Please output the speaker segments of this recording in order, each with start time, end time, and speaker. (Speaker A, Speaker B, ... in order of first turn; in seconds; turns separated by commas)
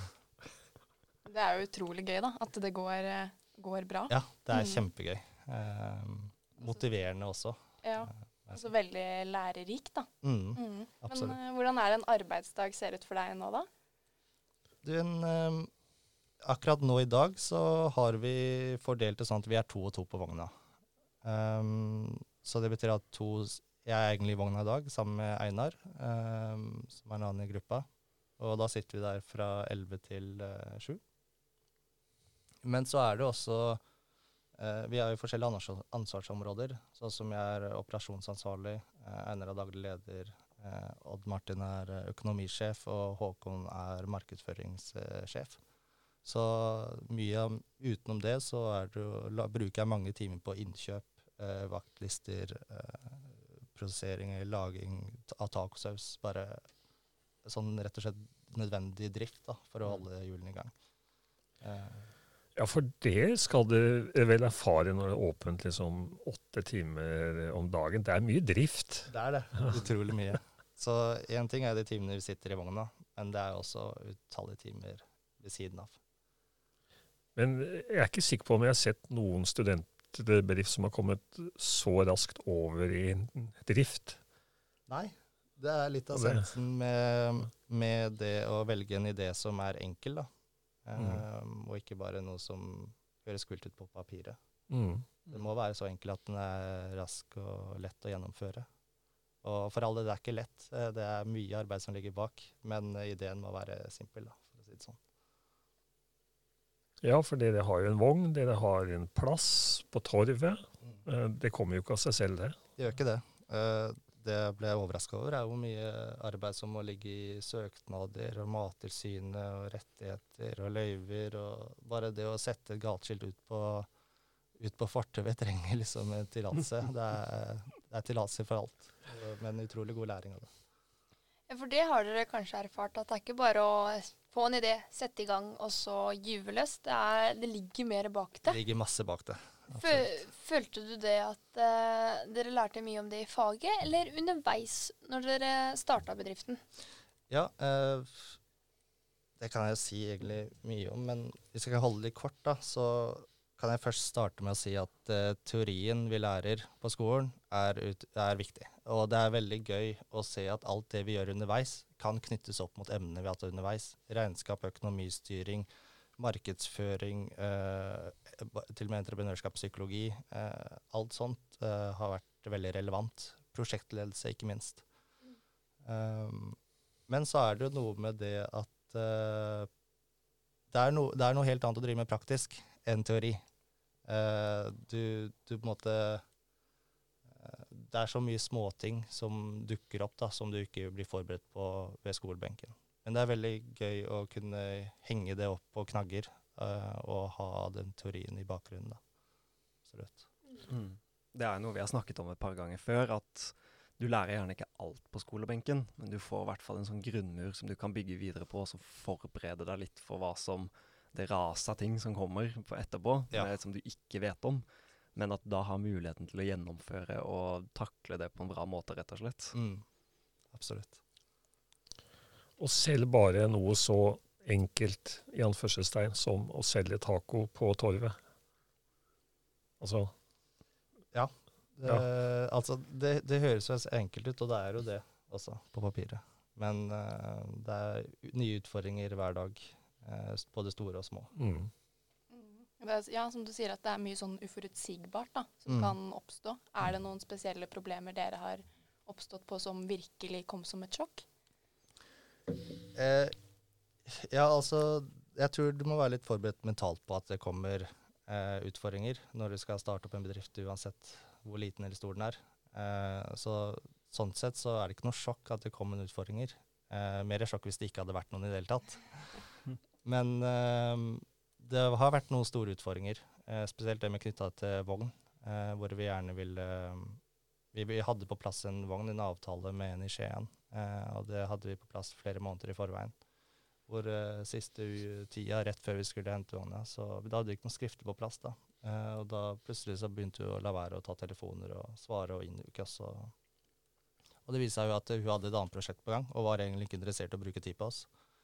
Speaker A: 1.2-4.8, Speaker B: 4.1-7.8, Speaker A: 7.8-13.7, Speaker B: 10.2-11.3, Speaker B: 14.8-15.7, Speaker B: 16.4-20.5, Speaker B: 21.2-27.9, Speaker B: 28.4-31.0, Speaker B: 32.6-33.8, Speaker B: 34.5-45.6, Speaker B: 46.2-56.7, Speaker B: 57.4-60.7, Speaker B: 61.6-62.1, Speaker C: 62.5-69.7, Speaker B: 69.1-76.0, Speaker C: 77.3-84.2, Speaker B: 84.9-90.3, Speaker C: 86.1-86.5, Speaker B: 90.8-94.4, Speaker C: 91.0-91.2, Speaker C: 94.7-95.1, Speaker B: 95.3-98.7, Speaker B: 99.4-105.0, Speaker C: 107.0-112.6, Speaker B: 112.8-123.9, Speaker B: 124.6-130.5, Speaker D: 131.5-138.6, Speaker B: 138.5-140.2, Speaker D: 139.7-146.6, Speaker B: 147.3-148.4, Speaker B: 149.4-174.8, Speaker B: 175.8-179.7, Speaker B: 180.7-183.4, Speaker B: 184.1-186.2, Speaker B: 187.3-199.0, Speaker B: 199.8-200.3, Speaker E: 200.7-219.5, Speaker B: 219.5-219.8, Speaker B: 220.5-221.0, Speaker C: 222.6-228.2, Speaker C: 229.8-230.1, Speaker B: 231.1-241.3, Speaker C: 241.3-241.7, Speaker A: 242.3-251.2, Speaker B: 245.7-245.9, Speaker B: 252.9-253.3, Speaker B: 254.1-269.4, Speaker B: 270.0-277.2, Speaker B: 277.7-283.1, Speaker B: 283.9-293.3, Speaker B: 294.4-298.1